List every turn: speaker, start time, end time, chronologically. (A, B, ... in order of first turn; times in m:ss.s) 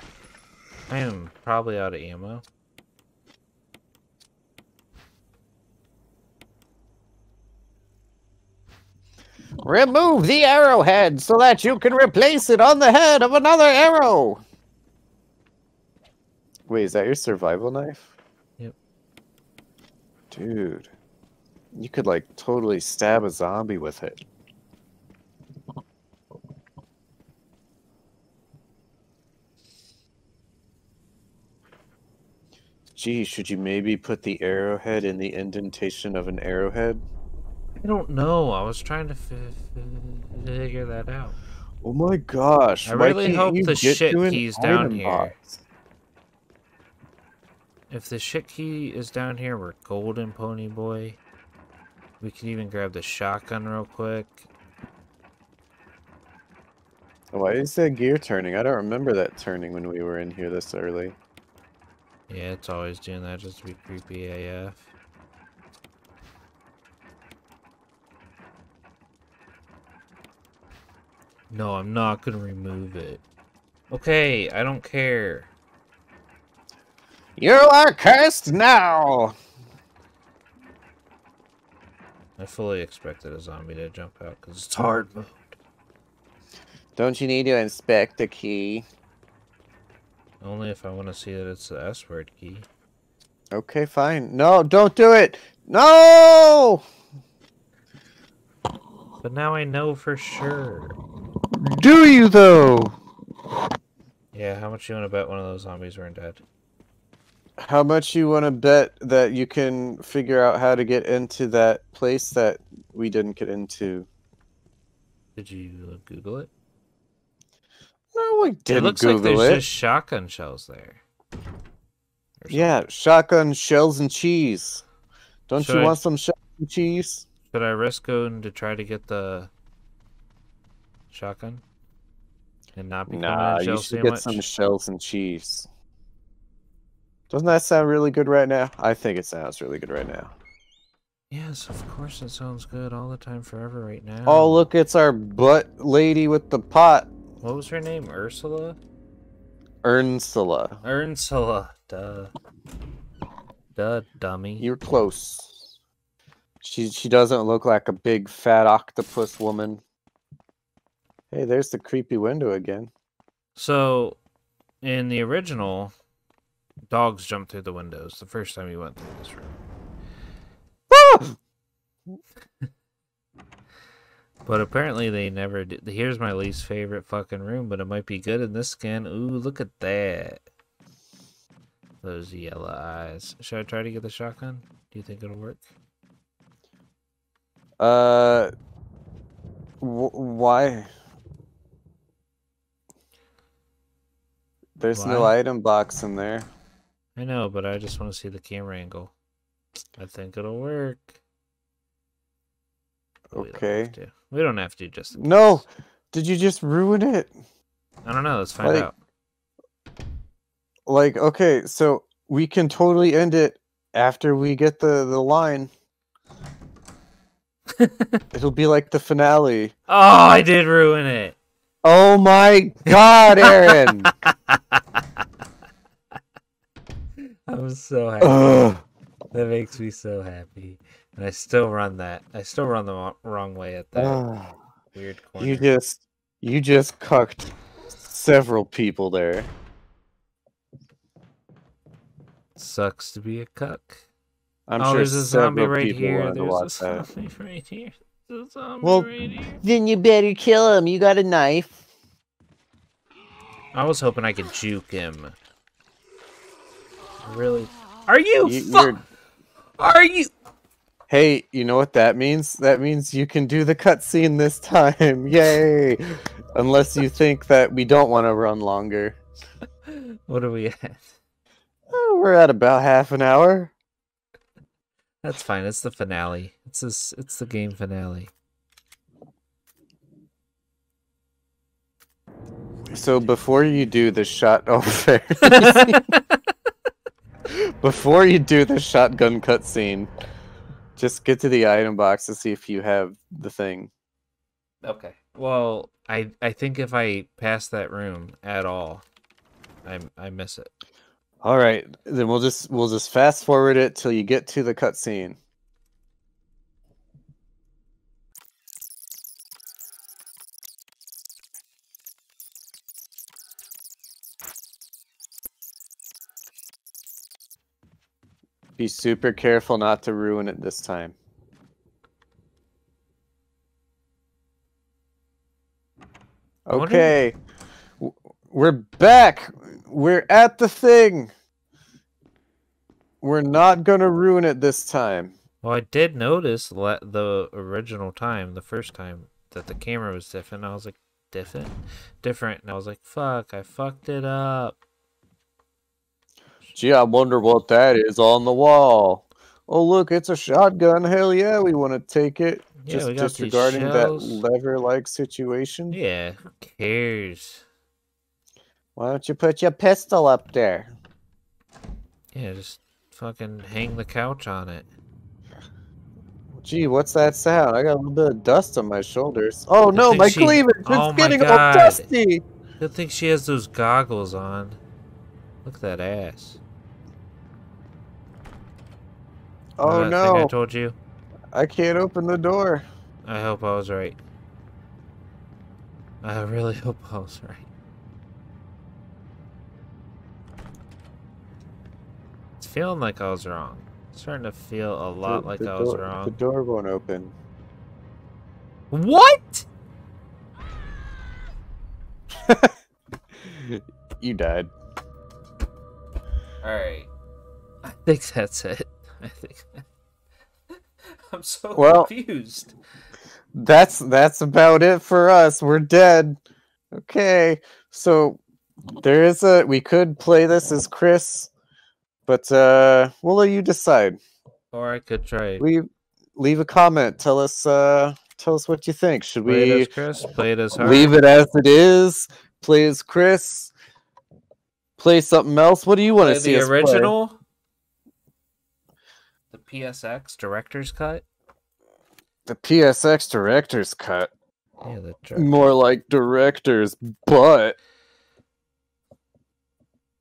0:00.9-0:02.4 A
0:09.6-0:14.4 B
0:16.7-0:18.1 B
0:20.3-0:20.9 B
0:21.7-0:24.2 B
0:33.0-0:37.0 B
0:37.8-0:41.4 A
0:41.8-0:45.6 B
0:42.8-0:45.3 A
0:47.9-0:51.2 A
0:52.2-0:54.5 A
0:57.3-1:01.2 B
1:02.3-1:04.9 A
1:11.5-1:13.2 A
1:13.9-1:15.5 A
1:17.4-1:19.4 B
1:22.4-1:25.6 A
1:27.0-1:28.8 B
1:30.4-1:32.7 A
1:33.5-1:36.8 B
1:39.2-1:41.0 A
1:41.5-1:42.9 B
1:44.3-1:46.4 A
1:47.6-1:54.1 B
1:55.4-1:56.5 A
1:58.1-1:59.6 B
1:58.7-2:01.0 A
2:02.4-2:02.8 A
2:02.5-2:04.8 B
2:05.5-2:07.2 B
2:05.6-2:06.0 A
2:07.5-2:09.5 A
2:11.1-2:11.6 A
2:12.8-2:14.4 A
2:13.1-2:15.7 B
2:17.3-2:20.3 B
2:21.3-2:24.6 A
2:24.2-2:27.1 B
2:27.4-2:28.8 A
2:29.8-2:30.8 B
2:30.8-2:32.3 A
2:33.8-2:34.7 A
2:34.6-2:35.7 B
2:36.6-2:39.8 B
2:41.3-2:42.9 B
2:43.6-2:44.2 A
2:44.8-2:45.9 A
2:46.9-2:49.6 A
2:50.9-2:51.3 B
2:54.4-3:00.4 A
3:02.0-3:05.6 A
3:07.8-3:08.5 B
3:09.8-3:10.9 B
3:14.8-3:16.5 B
3:14.9-3:15.4 A
3:17.2-3:19.1 A
3:20.0-3:21.2 A
3:23.3-3:23.9 B
3:23.3-3:25.6 A
3:25.1-3:27.3 B
3:28.0-3:28.9 A
3:28.6-3:28.9 B
3:30.9-3:35.7 B
3:37.8-3:38.2 A
3:38.3-3:39.7 B
3:39.9-3:41.4 A
3:41.8-3:44.1 B
3:43.3-3:45.0 A
3:47.2-3:48.7 A
3:48.2-3:48.8 B
3:49.3-3:54.2 A
3:54.0-3:54.6 B
3:54.9-3:55.7 A
3:55.4-3:59.5 B
4:02.6-4:04.0 A
4:04.7-4:07.1 B
4:04.8-4:09.6 A
4:08.8-4:11.8 B
4:13.7-4:15.4 A
4:17.2-4:19.0 A
4:18.4-4:19.0 B
4:19.8-4:20.3 A
4:21.1-4:29.2 B
4:29.9-4:31.2 A
4:31.9-4:33.7 B
4:35.2-4:38.3 A
4:42.9-4:46.0 B
4:45.4-4:46.4 A
4:47.5-4:50.1 B
4:51.0-4:53.9 B
4:54.8-4:59.1 A
4:59.8-5:00.7 A
5:01.4-5:05.4 B
5:18.8-5:21.1 B
5:26.6-5:27.4 B
5:26.7-5:27.1 A
5:28.0-5:31.3 B
5:33.2-5:35.4 B
5:35.6-5:44.8 A
5:46.7-5:56.0 B
5:52.8-5:54.4 A
5:55.9-5:57.6 A
5:59.0-6:00.9 B
6:02.3-6:04.9 A
6:06.6-6:12.4 B
6:09.9-6:12.1 A
6:12.8-6:14.8 A
6:15.6-6:16.6 A
6:19.8-6:20.5 B
6:19.8-6:21.0 A
6:21.5-6:22.8 B
6:23.2-6:24.2 A
6:26.2-6:27.6 A
6:32.6-6:36.3 A
6:35.2-6:37.3 B
6:38.9-6:39.6 A
6:42.3-6:42.7 B
6:43.4-6:44.7 B
6:46.6-6:47.1 A
6:47.8-6:49.8 A
6:51.2-6:52.7 A
6:51.7-6:52.1 B
6:53.5-6:56.4 B
6:56.9-6:58.4 B
6:59.0-7:01.5 B
7:02.3-7:04.2 B
7:04.7-7:05.6 A
7:05.6-7:09.9 B
7:09.4-7:11.1 A
7:10.7-7:13.7 B
7:15.0-7:17.1 B
7:16.2-7:17.4 A
7:19.5-7:21.2 A
7:22.4-7:24.3 B
7:24.8-7:25.6 A
7:25.4-7:27.8 B